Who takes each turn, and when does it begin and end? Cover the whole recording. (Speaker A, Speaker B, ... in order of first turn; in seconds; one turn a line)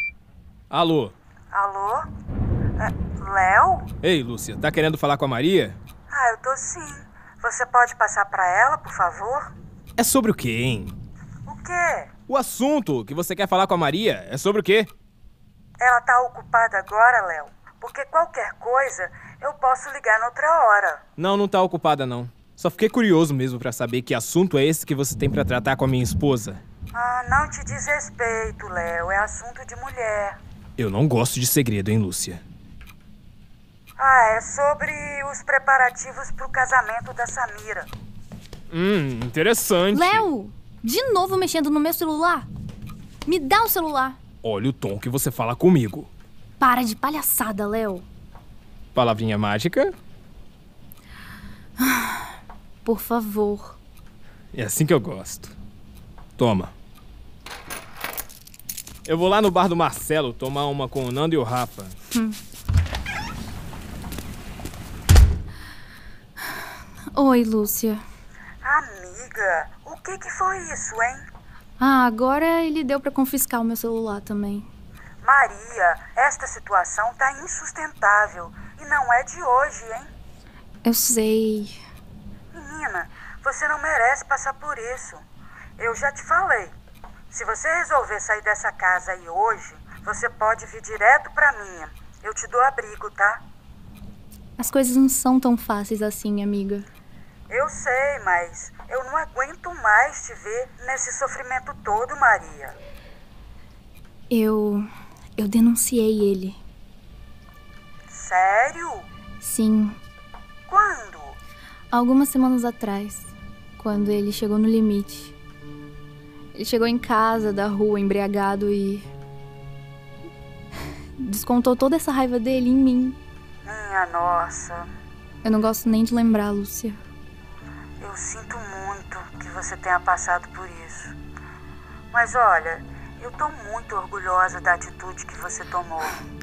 Speaker A: 0.7-1.1
Speaker B: 1.5-2.1
Speaker B: 2.8-3.9
Speaker A: 4.0-5.8
Speaker B: 6.1-9.5
Speaker A: 10.0-10.9
Speaker B: 11.5-12.1
Speaker A: 12.3-14.9
Speaker B: 15.8-21.0
Speaker A: 21.2-26.6
Speaker B: 26.9-30.4
Speaker A: 30.8-32.4
Speaker B: 34.0-37.9
Speaker A: 38.7-40.3
Speaker C: 39.9-42.5
Speaker C: 43.2-44.2
Speaker A: 44.4-46.1
Speaker C: 46.6-48.1
Speaker A: 48.9-50.0
Speaker C: 51.8-52.2
Speaker C: 52.9-53.8
Speaker A: 54.5-55.5
Speaker A: 56.4-56.7
Speaker A: 59.1-62.0
Speaker C: 62.1-62.4
Speaker C: 67.1-68.0
Speaker B: 68.6-71.3
Speaker C: 71.8-74.7
Speaker B: 75.2-80.1
Speaker C: 80.8-81.8
Speaker B: 82.5-85.2
Speaker B: 85.8-86.8
Speaker B: 87.3-93.4
Speaker C: 94.6-96.9
Speaker B: 97.5-102.8
Speaker C: 104.3-106.6
Speaker B: 108.1-109.1
Speaker C: 109.4-110.0
Speaker B: 110.7-111.4
Speaker C: 111.9-115.3
Speaker C: 116.5-119.1
Speaker C: 121.2-123.2
Speaker B: 123.7-124.9
Speaker C: 125.4-127.0
Speaker B: 128.0-131.2
Speaker B: 132.1-136.1